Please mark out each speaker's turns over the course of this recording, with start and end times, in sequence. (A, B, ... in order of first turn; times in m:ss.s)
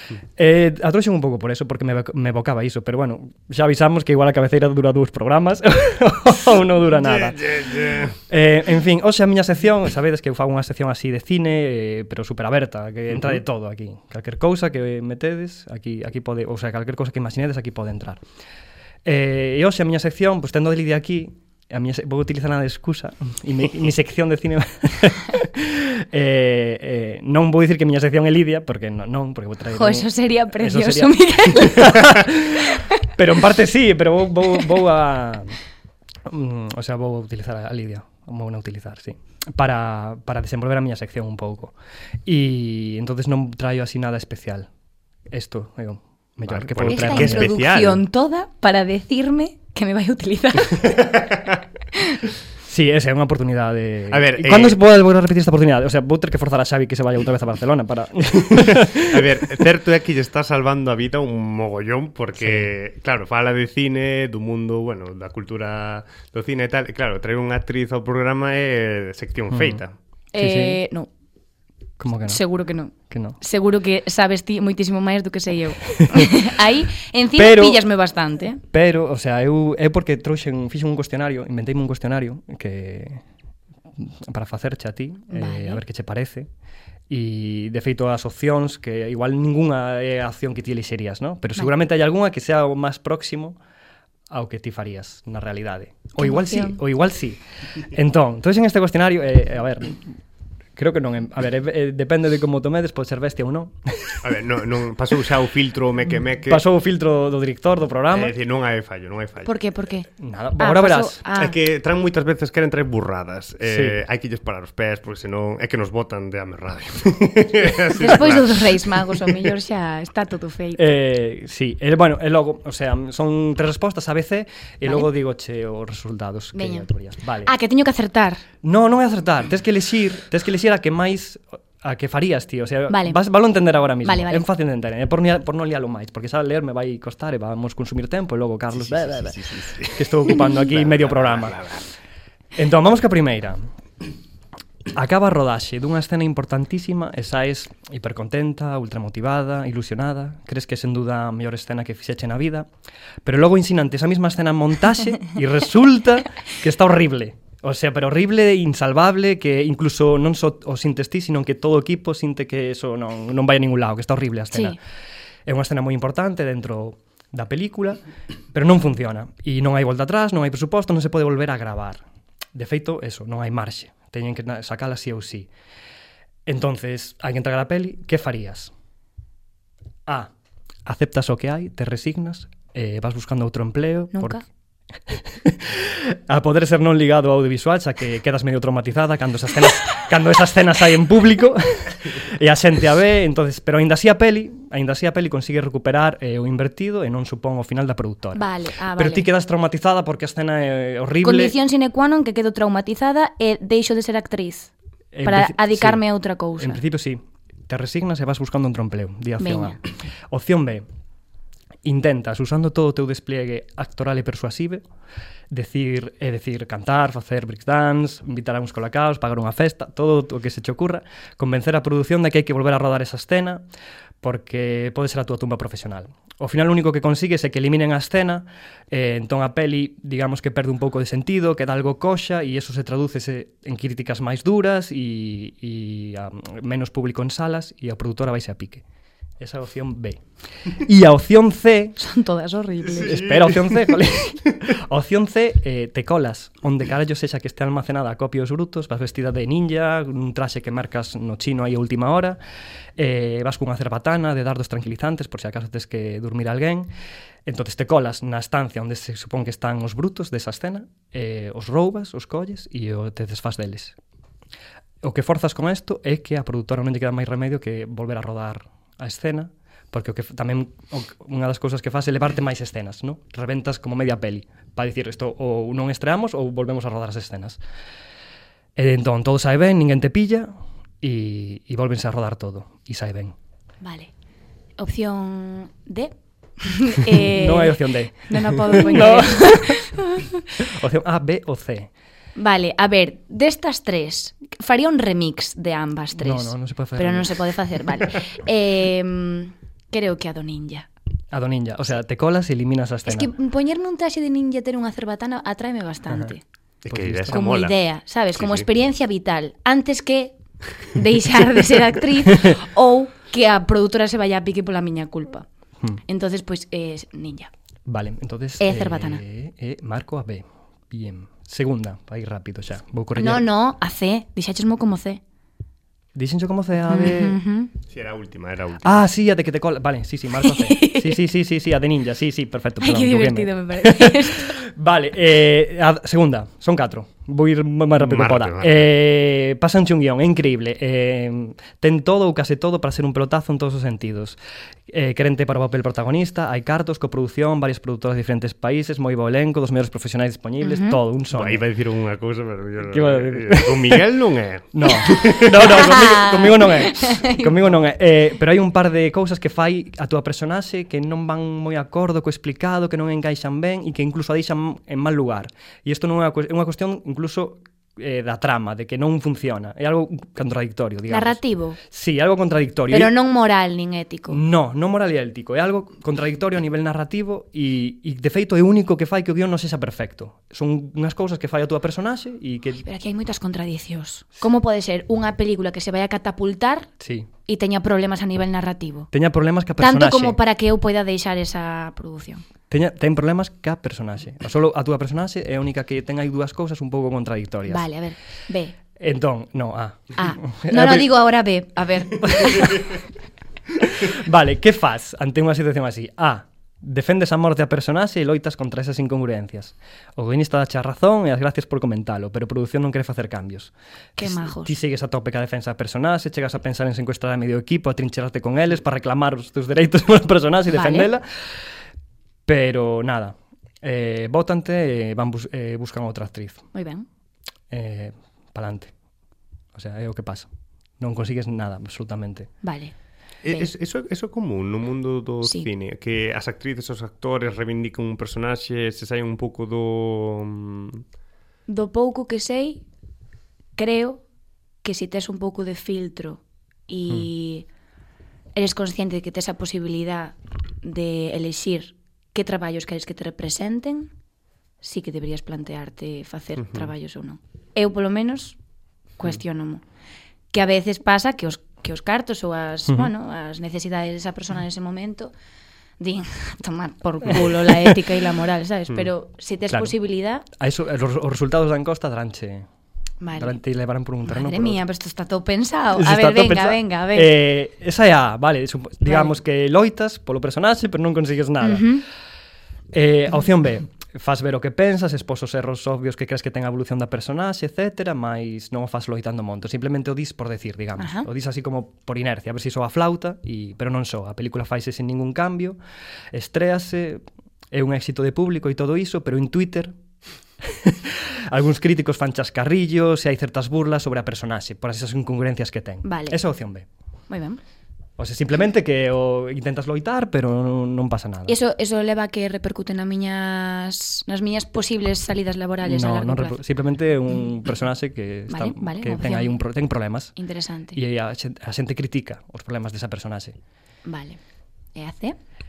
0:00.4-0:07.6 A
0:07.0-0:08.2 B
0:08.3-0:18.2 A
0:19.0-0:35.6 A
0:29.7-0:32.9 C
0:36.2-0:41.7 A
0:42.2-0:44.7 A
0:45.3-0:47.5 A
0:46.5-0:48.0 B
0:46.9-0:51.0 C
0:52.6-0:59.4 A
0:54.1-0:54.8 B
0:58.5-1:09.9 B
1:02.4-1:02.7 A
1:09.5-1:09.8 A
1:10.3-1:11.1 C
1:10.4-1:10.8 A
1:12.0-1:12.4 A
1:12.2-1:18.6 C
1:12.9-1:13.4 A
1:15.9-1:16.3 A
1:17.4-1:17.8 A
1:18.7-1:23.2 A
1:24.0-1:26.5 A
1:25.3-1:25.8 C
1:27.1-1:33.6 A
1:34.3-1:40.2 A
1:36.2-1:36.8 C
1:40.8-1:44.2 A
1:44.2-1:46.6 B
1:46.5-1:48.3 A
1:48.1-1:49.5 B
1:49.4-1:51.6 C
1:50.2-1:51.2 A
1:51.4-1:58.9 B
1:53.6-1:54.0 A
1:58.0-2:00.9 C
2:00.8-2:07.5 A
2:06.5-2:06.9 C
2:07.4-2:08.4 C
2:08.6-2:21.6 A
2:12.9-2:13.2 C
2:14.0-2:14.4 C
2:18.7-2:21.8 B
2:22.6-2:23.7 A
2:24.9-2:32.7 A
2:33.2-2:44.8 A
2:44.5-2:44.8 C
2:45.4-2:48.0 A
2:48.5-2:52.0 A
2:52.5-2:55.5 A
2:56.4-2:58.7 A
3:00.0-3:00.3 A
3:00.8-3:04.4 A
3:04.1-3:04.4 C
3:05.1-3:21.5 A
3:18.3-3:19.3 C
3:21.2-3:24.7 C
3:25.1-3:26.0 A
3:25.2-3:26.8 C
3:26.6-3:30.8 A
3:29.4-3:29.8 C
3:31.8-3:34.8 A
3:35.5-3:43.6 A
3:44.2-3:58.8 A
3:59.4-4:02.0 A
4:02.0-4:03.2 C
4:02.9-4:03.9 B
4:03.0-4:12.4 A
4:13.0-4:16.9 A
4:17.4-4:24.0 A
4:25.0-4:37.6 A
4:38.8-4:43.3 A
4:43.8-4:44.1 C
4:44.8-4:50.3 C
4:47.1-4:49.9 A
4:50.6-4:51.9 A
4:52.4-5:00.9 C
4:56.2-4:57.4 A
5:01.3-5:03.3 A
5:03.0-5:06.4 C
5:06.8-5:07.8 B
5:06.9-5:07.4 A
5:07.3-5:15.5 C
5:08.4-5:08.7 B
5:16.1-5:17.5 C
5:17.9-5:23.4 A
5:18.6-5:19.2 C
5:23.2-5:25.2 C
5:26.1-5:27.4 A
5:26.9-5:27.7 C
5:27.9-5:29.0 B
5:28.8-5:44.4 A
5:30.4-5:31.2 C
5:32.8-5:34.6 C
5:38.0-5:38.8 B
5:44.9-5:51.6 A
5:50.6-5:51.0 C
5:51.3-5:55.7 B
5:52.8-5:54.0 A
5:54.7-6:13.1 A
5:54.8-5:57.5 C
6:11.1-6:11.8 C
6:12.9-6:14.4 C
6:14.3-6:22.8 A
6:22.8-6:26.9 C
6:27.0-6:27.3 A
6:27.5-6:29.1 C
6:29.1-6:30.4 A
6:29.8-6:32.4 C
6:32.7-6:37.8 A
6:37.7-6:38.8 C
6:39.0-6:41.1 A
6:40.2-6:42.8 C
6:42.2-6:42.8 A
6:43.8-7:01.2 A
6:54.2-6:54.7 C
7:00.7-7:01.1 C
7:02.4-7:06.6 A
7:06.7-7:07.0 C
7:07.7-7:08.9 A
7:09.7-7:10.5 A
7:11.0-7:12.5 A
7:12.6-7:12.9 C
7:13.4-7:21.0 B
7:21.7-7:22.8 C
7:23.8-7:24.2 C
7:24.8-7:27.6 C
7:28.5-7:34.1 C
7:34.8-7:38.6 C
7:36.6-7:36.9 B
7:39.2-7:39.8 C
7:40.5-7:45.3 C
7:46.0-7:50.4 C
7:47.5-7:47.9 A
7:49.7-7:49.9 A
7:50.5-7:52.7 A
7:53.2-7:53.6 C
7:53.3-7:54.8 A
7:54.2-7:57.3 C
7:55.9-8:01.9 A
7:59.0-7:59.3 C
8:01.6-8:02.0 C
8:02.9-8:15.8 A
8:11.0-8:11.3 C
8:16.3-8:19.9 A
8:20.6-8:26.8 A
8:26.0-8:26.4 C
8:27.3-8:27.6 C
8:28.2-8:31.6 A
8:31.5-8:36.6 C
8:35.8-8:40.3 A
8:38.5-8:39.6 C
8:40.4-8:41.0 C
8:40.9-8:43.5 A
8:44.0-8:44.4 C
8:44.9-8:45.4 C